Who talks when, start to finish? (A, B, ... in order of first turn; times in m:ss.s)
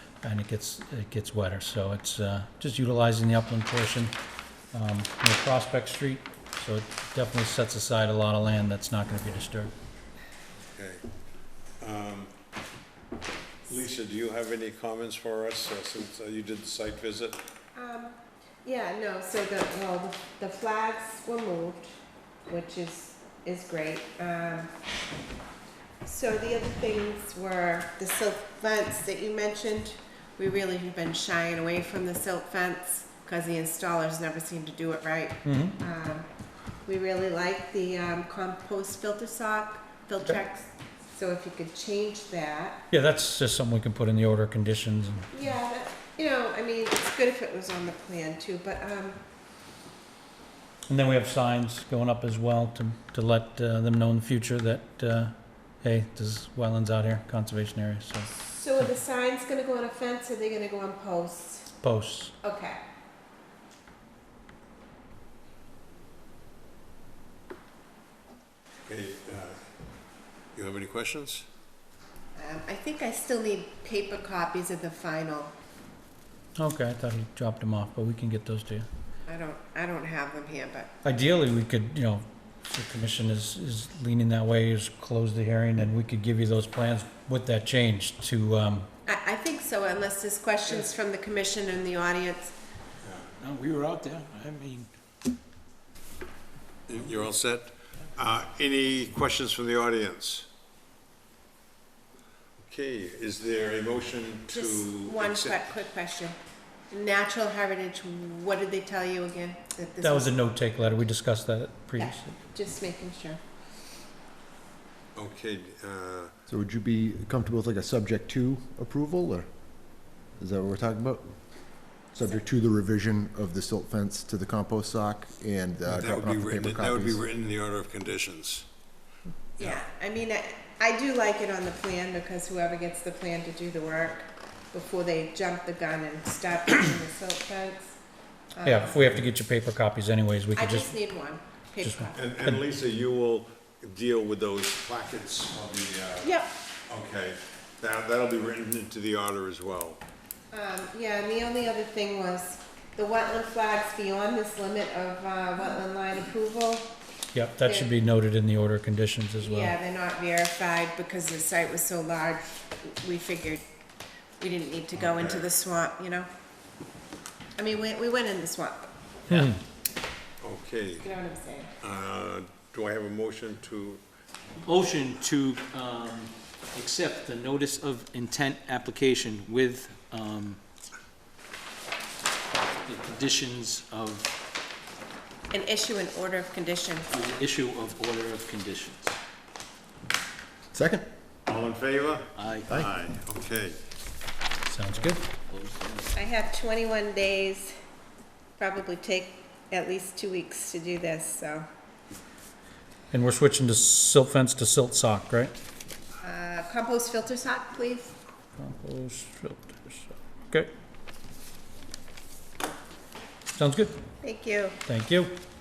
0:00.2-0:04.1 A
0:04.7-0:09.7 A
0:10.7-0:11.0 B
0:11.8-0:12.3 B
0:13.7-0:17.4 B
0:17.8-0:21.9 C
0:22.5-0:24.7 C
0:26.0-0:36.3 C
0:35.4-0:35.8 A
0:36.8-0:42.8 C
0:42.9-0:45.5 A
0:45.3-0:49.2 C
0:50.9-0:58.9 A
0:58.3-1:01.7 C
1:01.8-1:02.4 A
1:02.4-1:02.8 C
1:08.8-1:09.6 B
1:10.6-1:11.4 B
1:12.4-1:15.5 C
1:16.6-1:18.9 A
1:19.3-1:21.0 C
1:21.0-1:28.9 A
1:29.1-1:32.6 C
1:33.0-1:33.3 B
1:33.4-1:34.9 D
1:36.9-1:40.5 B
1:42.6-1:45.7 B
1:44.5-1:46.4 C
1:46.9-1:50.4 C
1:50.0-1:52.4 A
1:52.0-1:53.4 C
1:55.2-1:56.3 B
1:56.5-1:59.5 E
2:00.4-2:01.4 E
2:02.1-2:07.2 E
2:05.9-2:08.7 B
2:09.6-2:18.0 C
2:18.6-2:19.2 C
2:18.6-2:20.9 A
2:20.6-2:22.3 C
2:21.8-2:22.6 A
2:22.2-2:26.3 B
2:26.2-2:26.5 C
2:26.9-2:30.0 B
2:30.5-2:36.9 C
2:37.3-2:39.8 A
2:37.6-2:37.9 C
2:39.4-2:43.6 C
2:44.4-2:46.3 C
2:45.0-2:45.4 B
2:47.6-2:48.9 C
2:49.3-2:49.6 A
2:50.4-2:51.1 B
2:51.0-2:51.7 C
2:51.8-2:54.0 B
2:54.7-3:00.6 D
3:02.9-3:04.3 D
3:05.5-3:07.1 C
3:07.1-3:09.2 D
3:10.7-3:11.1 E
3:11.5-3:13.8 B
3:12.4-3:12.7 D
3:14.6-3:15.3 A
3:15.0-3:16.1 D
3:16.2-3:17.7 C
3:18.6-3:21.7 C
3:23.1-3:25.5 A
3:26.2-3:28.1 C
3:28.6-3:30.7 A
3:33.6-3:34.0 A
3:34.2-3:34.8 C
3:34.9-3:35.3 A